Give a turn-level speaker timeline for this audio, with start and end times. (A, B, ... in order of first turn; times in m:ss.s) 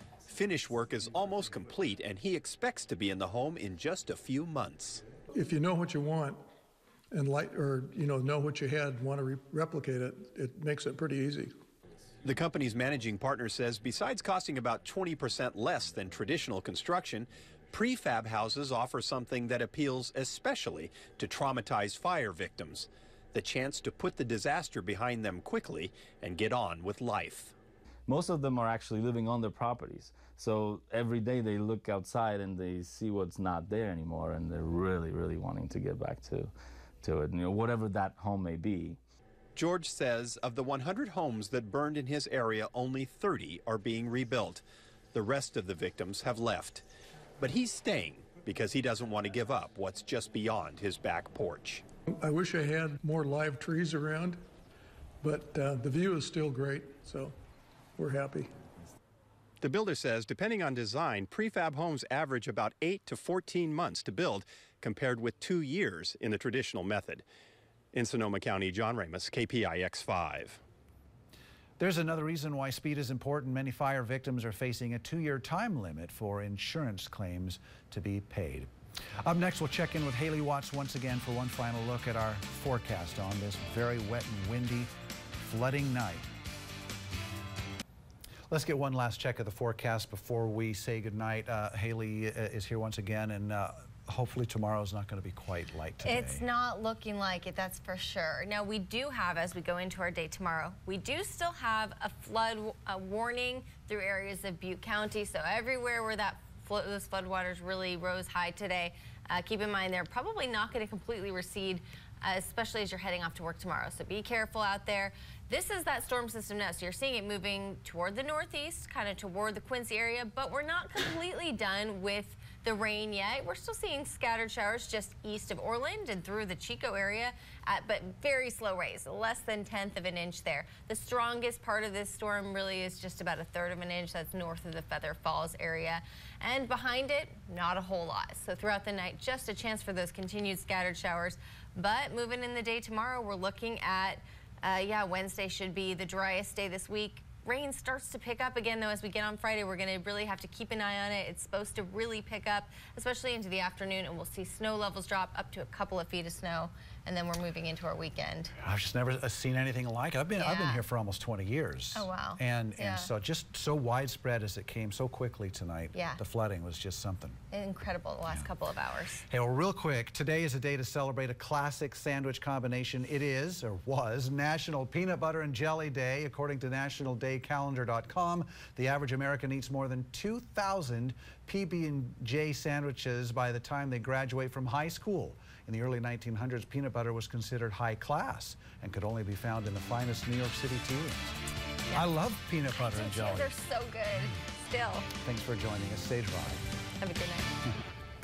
0:00.3-0:05.0 A
0:05.3-0:06.4 B
0:07.1-0:11.6 B
0:12.2-0:27.5 A
0:28.1-0:36.5 C
0:37.0-0:39.0 C
0:39.6-0:44.6 A
0:45.1-0:46.8 A
0:47.4-0:51.8 A
0:52.1-0:54.4 B
0:55.2-0:57.4 B
0:58.0-0:58.5 B
0:59.6-1:07.2 A
1:07.9-1:10.6 A
1:11.8-1:18.7 D
1:19.2-1:24.9 D
1:25.4-1:26.3 D
1:28.5-1:36.4 D
1:36.0-2:38.5 E
2:38.6-2:47.4 D
2:40.4-2:40.8 E
2:41.9-2:43.1 E
2:45.9-2:46.2 E
2:47.5-2:49.2 E
2:49.3-3:11.4 D
3:11.9-3:13.5 D
3:12.8-3:15.1 E
3:15.2-3:16.6 D
3:17.0-3:17.6 E